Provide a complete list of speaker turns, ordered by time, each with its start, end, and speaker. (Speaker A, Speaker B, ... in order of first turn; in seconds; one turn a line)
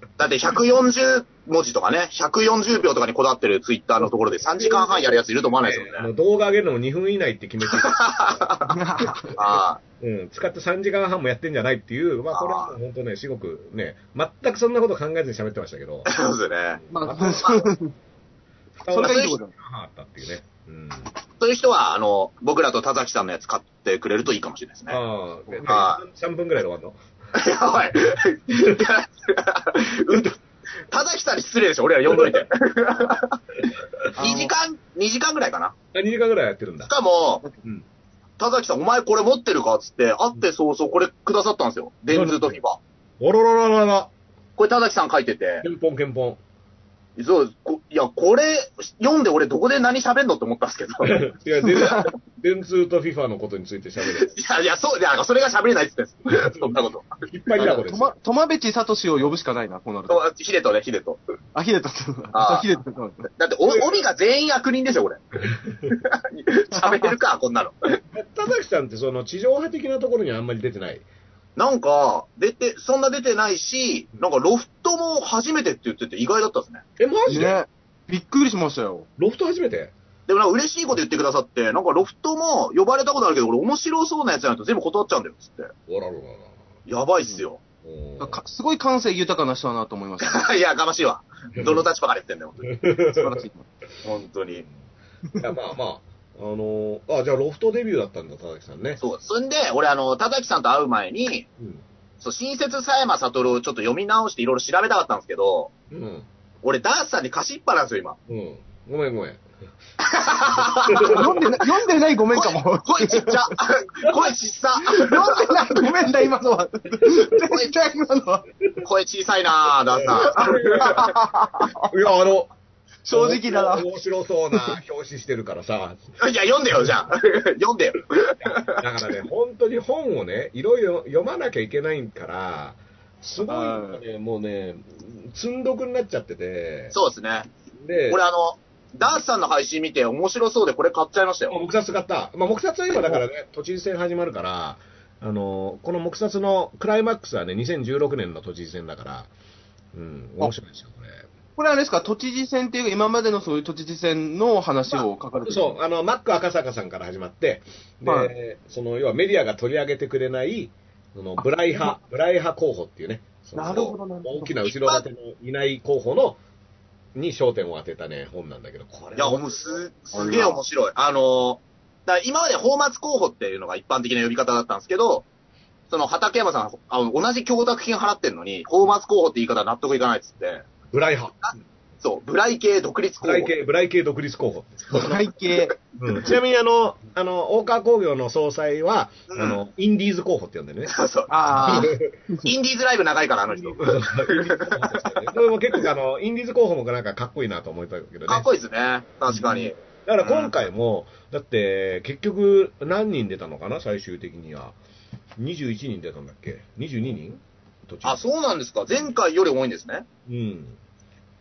Speaker A: 0.2-6.1
Speaker B: 4.4-9.3
Speaker A: 7.7-8.7
Speaker C: 8.7-9.3
Speaker A: 9.3-9.8
Speaker B: 10.0-16.1
Speaker A: 12.3-12.8
Speaker A: 16.1-16.8
Speaker B: 16.8-17.7
Speaker C: 16.9-17.9
Speaker A: 17.4-17.6
Speaker B: 18.8-21.1
Speaker C: 18.9-19.5
Speaker A: 18.9-19.4
Speaker A: 21.4-25.0
Speaker B: 24.9-27.0
Speaker A: 25.6-26.0
Speaker A: 27.3-30.3
Speaker B: 28.5-28.9
Speaker B: 30.1-30.3
Speaker A: 30.9-33.4
Speaker B: 32.1-32.4
Speaker B: 33.6-34.1
Speaker A: 34.1-35.7
Speaker C: 34.2-34.5
Speaker B: 35.9-36.9
Speaker A: 36.9-37.4
Speaker A: 38.4-42.8
Speaker B: 42.1-42.6
Speaker B: 43.2-44.1
Speaker A: 44.6-45.6
Speaker B: 45.6-46.4
Speaker A: 47.2-52.1
Speaker B: 51.0-54.4
Speaker A: 54.0-57.1
Speaker B: 56.3-58.1
Speaker C: 57.5-60.2
Speaker A: 60.1-61.2
Speaker C: 61.5-63.3
Speaker A: 62.3-62.7
Speaker A: 63.3-65.2
Speaker B: 63.6-64.0
Speaker A: 65.9-68.0
Speaker C: 66.8-67.1
Speaker B: 68.1-71.0
Speaker A: 71.6-76.8
Speaker B: 77.0-77.6
Speaker C: 77.3-79.1
Speaker B: 79.2-79.9
Speaker A: 80.3-85.7
Speaker B: 85.9-86.5
Speaker A: 86.8-87.6
Speaker B: 87.8-88.4
Speaker C: 88.2-90.5
Speaker A: 90.2-92.7
Speaker B: 91.5-91.8
Speaker B: 92.6-93.4
Speaker C: 93.1-93.7
Speaker A: 94.0-94.7
Speaker B: 95.4-99.0
Speaker A: 99.0-101.5
Speaker A: 102.2-105.7
Speaker B: 105.9-106.3
Speaker A: 106.6-108.2
Speaker B: 108.3-109.4
Speaker A: 110.0-111.7
Speaker B: 110.9-111.4
Speaker C: 111.0-113.6
Speaker A: 112.3-115.5
Speaker C: 114.9-118.4
Speaker A: 117.3-117.7
Speaker A: 118.8-121.1
Speaker B: 120.2-121.1
Speaker C: 120.2-121.9
Speaker B: 121.8-122.5
Speaker C: 123.0-123.9
Speaker B: 123.1-126.0
Speaker C: 124.5-124.8
Speaker A: 126.2-128.8
Speaker B: 128.4-136.9
Speaker C: 133.4-134.0
Speaker A: 136.9-137.5
Speaker B: 137.8-138.2
Speaker A: 138.1-141.6
Speaker B: 141.5-149.3
Speaker B: 149.9-151.3
Speaker C: 151.6-155.7
Speaker B: 154.9-166.4
Speaker C: 158.0-158.3
Speaker C: 161.7-161.9
Speaker C: 163.6-164.6
Speaker A: 164.7-165.0
Speaker B: 167.1-169.9
Speaker A: 169.2-175.3
Speaker C: 170.1-170.6
Speaker A: 175.9-180.7
Speaker B: 180.9-181.5
Speaker A: 182.0-183.5
Speaker B: 183.2-185.1
Speaker C: 184.9-185.8
Speaker B: 186.0-190.9
Speaker A: 189.3-189.6
Speaker A: 190.9-191.9
Speaker C: 191.3-192.5
Speaker B: 191.5-192.1
Speaker A: 192.4-195.1
Speaker B: 193.5-198.5
Speaker A: 198.3-200.5
Speaker B: 199.3-204.8
Speaker B: 205.4-208.3
Speaker A: 208.0-210.1
Speaker B: 210.3-210.8